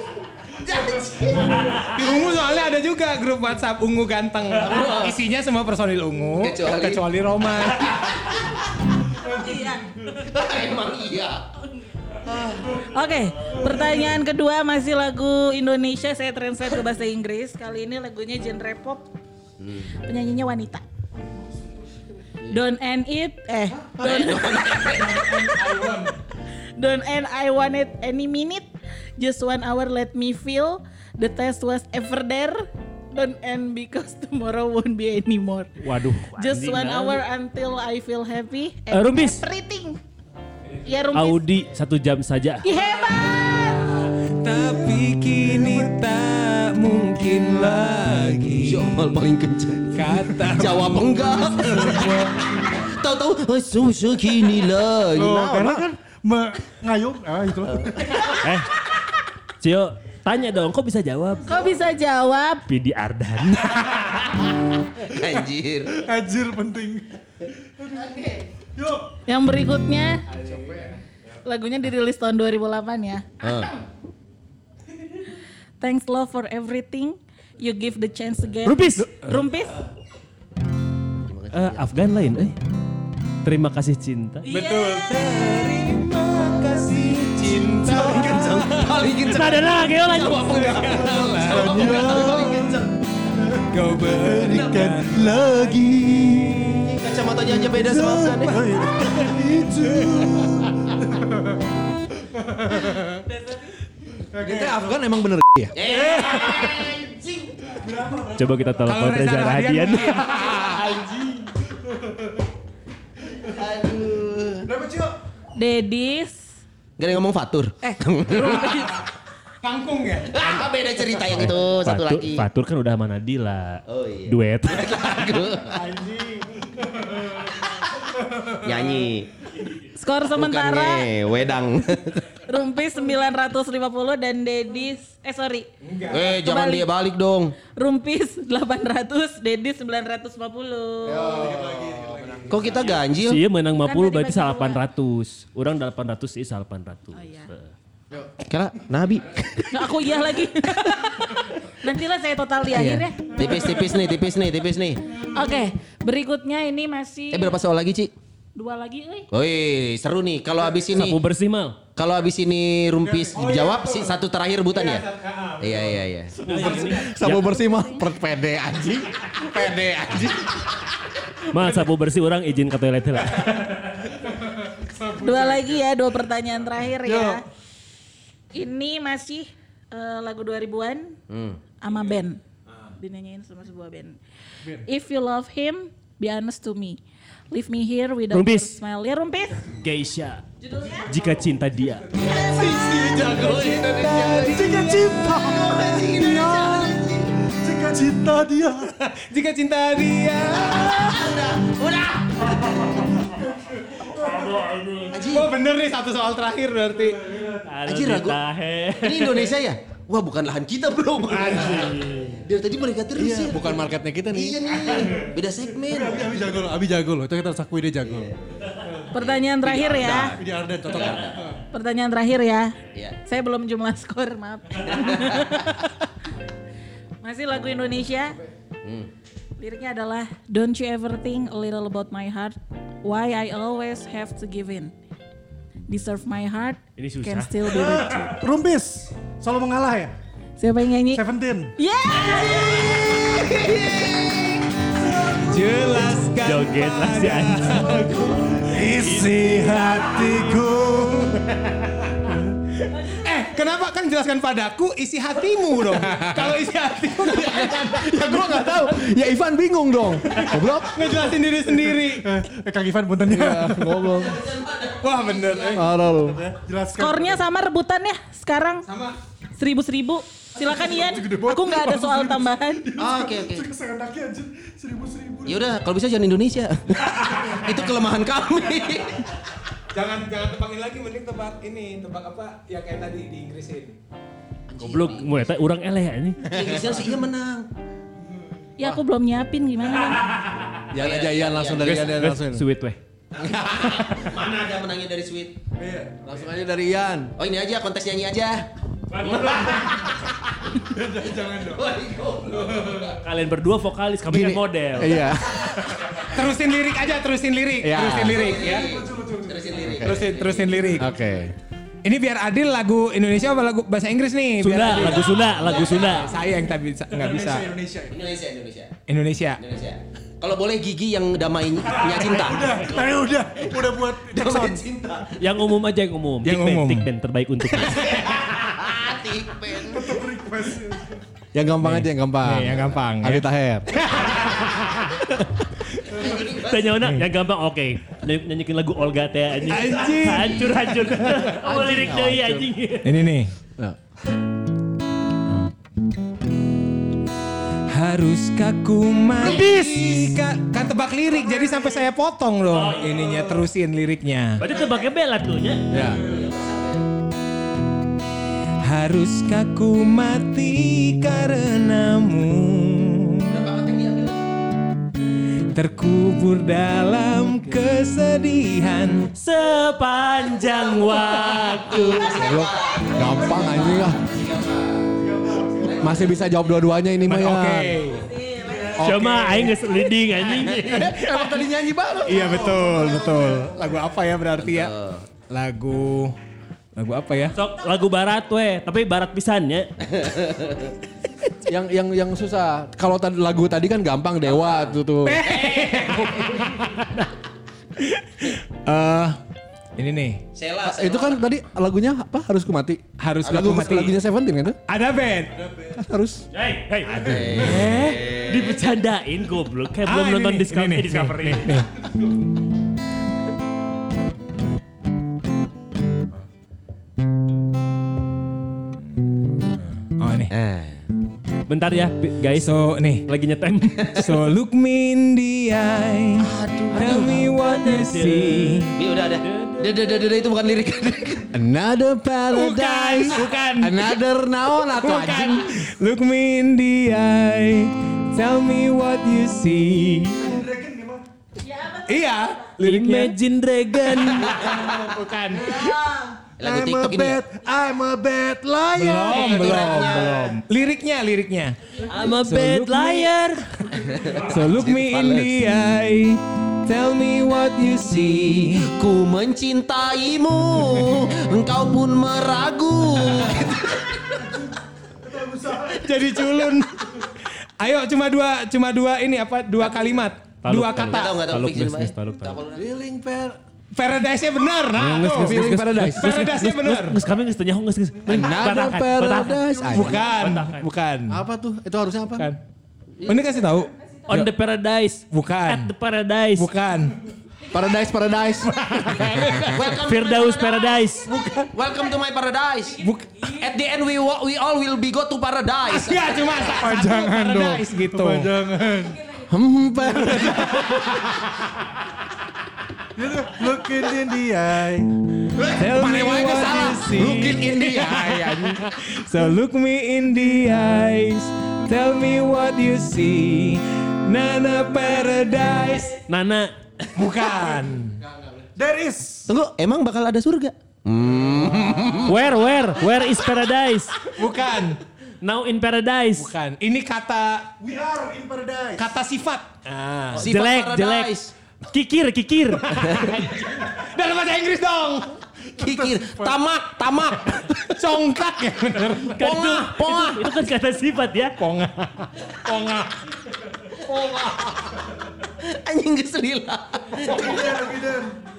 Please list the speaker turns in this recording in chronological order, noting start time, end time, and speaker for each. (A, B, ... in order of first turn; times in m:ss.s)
0:00.6-0:01.6 A
0:01.6-0:08.0 B
0:04.6-0:05.2 A
0:06.4-0:07.0 A
0:09.2-0:09.9 C
0:10.1-0:11.4 A
0:12.2-0:12.8 A
0:12.8-0:19.1 C
0:19.6-0:19.9 A
0:20.0-0:20.8 C
0:22.5-0:24.7 C
0:24.0-0:25.6 A
0:25.0-0:26.2 B
0:26.8-0:35.8 C
0:35.8-0:37.2 D
0:36.4-0:40.0 C
0:38.9-0:39.4 D
0:40.8-0:41.4 C
0:41.1-0:42.7 D
0:42.6-0:43.9 C
0:44.0-0:48.9 B
0:45.6-0:45.8 E
0:48.5-0:55.9 A
0:50.0-0:51.1 B
0:55.1-0:58.1 E
0:57.8-0:58.4 A
0:58.4-0:58.7 D
0:59.6-1:01.6 D
1:01.5-1:02.6 C
1:02.7-1:04.3 D
1:05.1-1:06.0 A
1:05.9-1:07.1 E
1:07.6-1:08.2 E
1:08.8-1:09.1 E
1:09.3-1:10.2 C
1:10.4-1:10.8 E
1:10.6-1:10.9 B
1:11.4-1:13.2 C
1:13.4-1:13.8 A
1:15.8-1:19.8 C
1:18.6-1:19.2 D
1:21.3-1:22.0 A
1:21.5-1:22.6 D
1:23.4-1:24.4 D
1:24.4-1:25.4 C
1:24.5-1:29.1 B
1:28.1-1:32.9 A
1:29.1-1:30.6 D
1:30.3-1:32.1 B
1:31.5-1:32.8 E
1:33.4-1:36.9 E
1:33.7-1:36.7 B
1:36.8-1:38.7 A
1:37.5-1:41.5 E
1:42.4-1:43.2 E
1:44.3-1:45.0 E
1:44.4-1:45.8 F
1:45.7-1:47.6 A
1:45.8-1:47.0 E
1:47.6-1:49.1 E
1:48.4-1:50.2 D
1:48.9-1:50.7 B
1:50.3-1:52.3 E
1:50.5-1:50.9 A
1:53.5-1:54.7 A
1:54.7-1:55.1 E
1:55.6-1:56.4 C
1:57.0-1:58.9 A
1:57.8-1:58.8 B
1:58.3-1:58.9 C
1:59.6-2:00.4 B
2:00.3-2:02.5 A
2:01.3-2:04.9 D
2:03.9-2:05.8 A
2:05.7-2:06.6 B
2:08.5-2:09.3 A
2:10.0-2:11.1 C
2:10.3-2:12.3 A
2:12.4-2:15.7 C
2:15.8-2:16.4 B
2:16.1-2:17.6 A
2:16.3-2:16.9 C
2:17.8-2:21.3 C
2:21.1-2:23.0 E
2:21.2-2:22.9 B
2:21.2-2:23.0 F
2:22.5-2:23.4 A
2:23.1-2:27.7 D
2:23.8-2:24.8 C
2:27.1-2:27.5 C
2:28.4-2:30.3 A
2:29.7-2:34.0 C
2:32.7-2:35.0 A
2:35.3-2:37.6 C
2:37.3-2:38.1 A
2:38.6-2:39.3 C
2:39.3-2:41.2 A
2:40.9-2:41.8 D
2:42.0-2:45.1 A
2:43.1-2:44.2 B
2:44.7-2:46.0 B
2:45.6-2:46.4 A
2:46.4-2:50.5 F
2:46.4-2:47.6 D
2:51.5-2:53.9 D
2:54.9-2:55.8 B
2:55.2-2:57.4 C
2:57.0-2:57.4 E
2:58.5-3:01.2 C
3:01.3-3:01.6 A
3:01.8-3:02.4 C
3:03.0-3:04.2 C
3:04.8-3:09.7 C
3:08.3-3:08.8 D
3:09.8-3:10.4 D
3:10.7-3:11.1 C
3:11.1-3:12.1 D
3:12.2-3:15.2 B
3:12.2-3:17.4 A
3:14.4-3:18.9 E
3:19.0-3:21.3 B
3:20.5-3:23.2 A
3:23.2-3:24.7 E
3:24.2-3:25.1 D
3:25.1-3:25.5 A
3:25.2-3:27.3 B
3:27.0-3:27.7 E
3:27.6-3:29.5 D
3:27.8-3:28.4 A
3:29.0-3:36.5 A
3:31.3-3:32.4 B
3:33.2-3:34.8 F
3:35.9-3:38.3 E
3:38.0-3:41.4 A
3:39.1-3:40.4 C
3:40.4-3:41.6 E
3:41.7-3:42.8 C
3:43.3-3:45.9 C
3:44.9-3:45.8 A
3:47.2-3:48.4 C
3:48.8-3:49.1 A
3:49.6-3:54.9 C
3:55.9-3:58.3 C
3:57.0-3:58.4 D
3:57.7-4:00.1 E
4:00.6-4:01.2 C
4:01.1-4:01.7 E
4:01.8-4:03.5 C
4:02.3-4:04.7 A
4:05.0-4:06.1 E
4:05.4-4:08.7 B
4:06.4-4:08.0 D
4:08.1-4:11.7 E
4:08.8-4:10.3 D
4:12.2-4:12.6 E
4:12.9-4:13.6 C
4:13.1-4:18.6 B
4:17.3-4:17.6 A
4:17.8-4:21.1 F
4:20.3-4:22.3 B
4:22.2-4:24.2 E
4:23.3-4:24.4 F
4:24.1-4:25.9 A
4:25.0-4:25.9 B
4:25.7-4:26.4 F
4:26.2-4:27.4 E
4:27.0-4:28.8 C
4:28.8-4:29.2 B
4:29.6-4:32.8 C
4:30.6-4:35.7 E
4:33.0-4:33.7 A
4:35.4-4:39.4 A
4:39.9-4:44.0 B
4:44.7-4:45.5 A
4:44.8-4:46.5 D
4:46.4-4:47.7 A
4:48.8-4:50.3 C
4:50.9-4:52.6 F
4:50.9-4:52.2 A
4:51.8-4:53.0 D
4:53.3-4:55.6 A
4:53.6-4:53.9 F
4:55.8-4:56.5 E
4:56.2-4:57.3 F
4:57.4-5:00.8 A
4:59.1-4:59.9 D
5:00.9-5:01.8 E
5:01.5-5:03.2 A
5:02.6-5:03.1 E
5:03.2-5:05.3 D
5:04.3-5:05.8 F
5:06.2-5:08.9 B
5:07.8-5:08.5 F
5:08.1-5:11.1 A
5:08.6-5:09.9 E
5:09.8-5:10.2 F
5:10.0-5:11.1 B
5:11.0-5:11.5 F
5:12.0-5:17.7 B
5:14.6-5:16.3 D
5:14.9-5:16.3 A
5:17.1-5:18.2 E
5:18.1-5:19.0 A
5:19.1-5:19.6 B
5:19.6-5:22.8 A
5:22.4-5:24.8 E
5:24.3-5:25.4 A
5:25.4-5:28.4 D
5:26.4-5:27.1 B
5:27.7-5:30.2 A
5:29.9-5:31.2 E
5:31.5-5:33.9 F
5:31.8-5:33.4 B
5:34.3-5:34.8 A
5:34.8-5:35.1 B
5:36.1-5:37.1 A
5:36.6-5:43.2 D
5:39.7-5:40.9 B
5:41.5-5:42.7 F
5:43.0-5:43.5 B
5:47.9-5:54.6 B
5:52.7-5:53.3 D
5:54.6-5:56.1 D
5:55.9-5:56.2 F
5:55.9-5:57.1 A
5:58.8-6:03.5 B
6:03.5-6:04.5 A
6:05.7-6:09.3 B
6:09.4-6:12.4 D
6:10.7-6:16.9 A
6:12.2-6:12.7 C
6:12.4-6:14.2 F
6:15.2-6:16.1 E
6:16.0-6:18.0 F
6:17.2-6:18.3 B
6:18.2-6:19.1 C
6:18.6-6:19.3 E
6:19.0-6:21.2 D
6:19.0-6:19.7 F
6:20.6-6:21.0 A
6:21.1-6:21.5 B
6:21.2-6:22.3 F
6:21.2-6:23.8 E
6:22.2-6:24.9 B
6:24.6-6:25.3 A
6:25.5-6:26.4 B
6:27.0-6:27.6 B
6:27.5-6:29.9 D
6:30.0-6:31.0 A
6:31.6-6:35.5 F
6:34.4-6:36.6 A
6:35.2-6:37.1 B
6:38.0-6:39.4 B
6:40.0-6:40.4 B
6:40.6-6:41.5 A
6:40.8-6:44.8 F
6:43.2-6:44.1 B
6:43.4-6:44.1 A
6:44.9-6:45.6 B
6:45.6-6:45.9 E
6:46.0-6:46.4 F
6:46.5-6:51.8 D
6:47.1-6:48.8 A
6:50.1-6:51.9 B
7:00.2-7:00.5 B
7:00.5-7:01.0 A
7:01.7-7:04.3 D
7:02.5-7:03.2 B
7:03.9-7:04.3 A
7:04.2-7:06.5 B
7:06.4-7:07.5 A
7:06.9-7:10.0 D
7:07.0-7:08.9 B
7:09.0-7:11.5 A
7:11.5-7:15.7 F
7:12.5-7:14.2 B
7:14.9-7:20.6 B
7:20.4-7:21.2 E
7:21.6-7:22.7 C
7:22.1-7:23.3 B
7:22.8-7:24.7 D
7:24.4-7:24.7 A
7:24.4-7:25.8 B
7:25.6-7:26.4 C
7:26.6-7:27.4 A
7:26.6-7:30.1 E
7:29.0-7:31.8 B
7:29.2-7:30.6 A
7:32.1-7:33.9 D
7:32.4-7:33.5 B
7:33.9-7:35.6 A
7:34.5-7:38.9 B
7:38.3-7:44.4 A
7:45.2-7:46.1 E
7:45.9-7:51.4 B
7:50.6-7:52.6 D
7:51.1-7:52.9 A
7:52.7-7:53.6 F
7:53.9-7:57.2 B
7:55.0-7:56.5 F
7:55.4-8:00.9 D
7:58.3-8:00.5 F
7:59.9-8:01.4 B
8:01.3-8:02.5 F
8:03.2-8:04.4 B
8:04.3-8:06.7 D
8:05.3-8:05.9 B
8:06.6-8:07.2 B
8:07.7-8:09.4 F
8:08.6-8:09.9 B
8:09.2-8:16.7 A
8:09.9-8:11.3 D
8:11.3-8:11.7 B
8:13.0-8:13.5 B
8:15.9-8:18.5 B
8:16.8-8:19.2 E
8:19.5-8:21.0 F
8:20.4-8:20.9 B
8:23.2-8:25.1 E
8:25.6-8:28.8 F
8:25.8-8:36.2 B
8:36.3-8:36.7 D
8:37.2-8:38.2 B
8:38.2-8:38.6 F
8:38.8-8:39.5 E
8:39.5-8:42.4 A
8:42.3-8:44.2 D
8:44.2-8:45.0 B
8:45.4-8:46.5 D
8:46.4-8:47.8 B
8:47.8-8:49.1 E
8:49.0-8:50.5 B
8:50.3-8:51.3 D
8:50.3-8:51.5 A
8:51.9-8:53.3 D
8:52.9-8:55.4 B
8:55.8-8:57.8 A
8:55.8-8:56.6 E
8:57.9-8:59.4 B
8:59.4-9:01.6 D
8:59.4-9:00.5 A
9:01.6-9:03.2 B
9:05.6-9:07.6 A
9:07.2-9:08.4 E